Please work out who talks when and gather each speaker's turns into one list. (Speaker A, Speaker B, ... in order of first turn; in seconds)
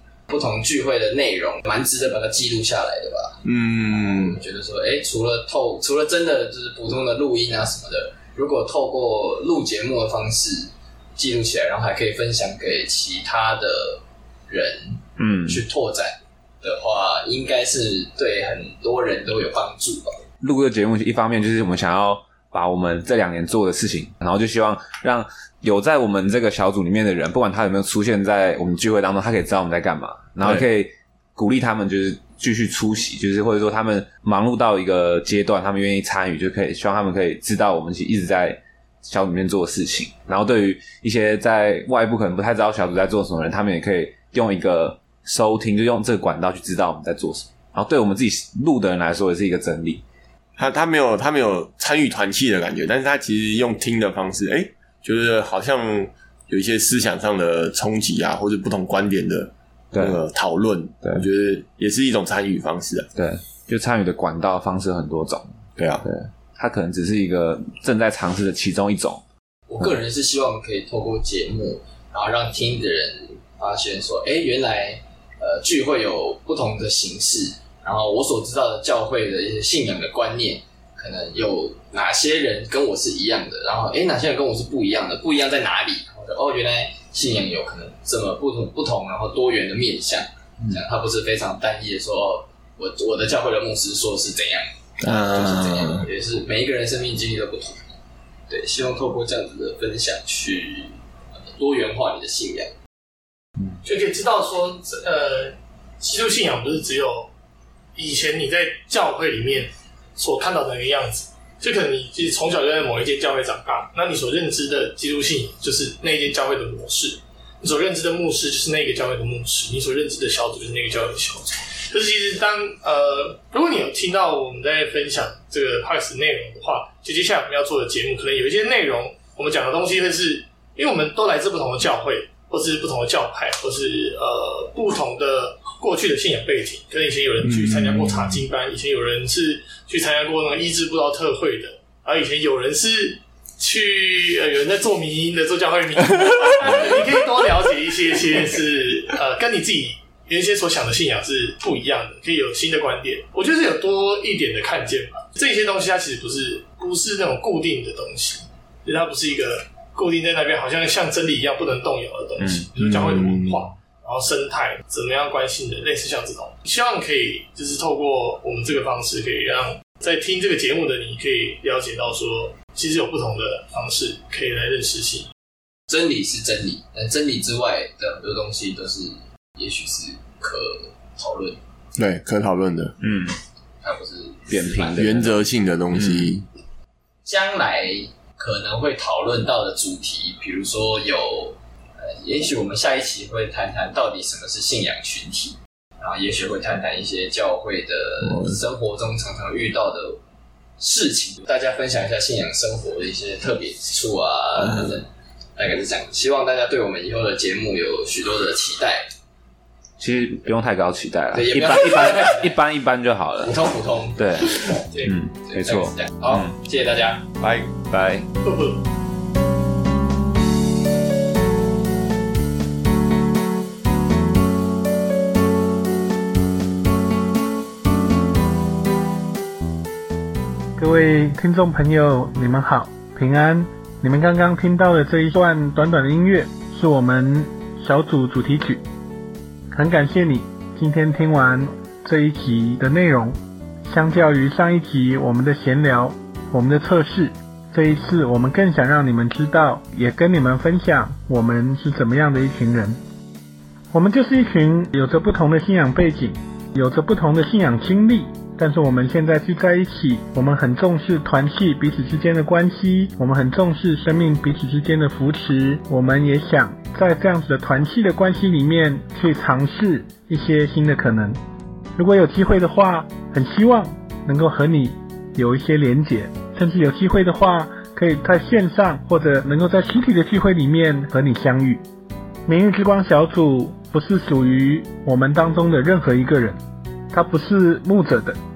Speaker A: 0.3-20.2, 69.7-97.8, 98.5-102.7, 175.9-181.6, 183.8-185.3, 187.2-200.2, 200.8-209.1, 211.3-212.6, 213.4-217.3
Speaker B: 3.5-4.4, 50.6-63.1, 65.8-66.1, 95.0-96.1, 137.4-138.5, 162.8-163.7, 182.0-182.9, 184.9-186.4, 198.2-198.6, 217.4-217.7
Speaker C: 15.2-15.6, 20.4-50.0, 59.9-60.2, 63.1-69.2, 162.4-162.8, 183.0-183.3, 184.5-185.4, 185.9-186.4, 210.0-213.6, 214.2-216.5, 217.9-218.3
Speaker D: 103.8-107.3, 108.0-175.3, 218.4-218.8
Speaker E: 230.8-238.8, 239.7-243.4, 243.9-253.0, 253.9-271.4, 272.0-281.8, 282.5-286.6, 287.1-288.4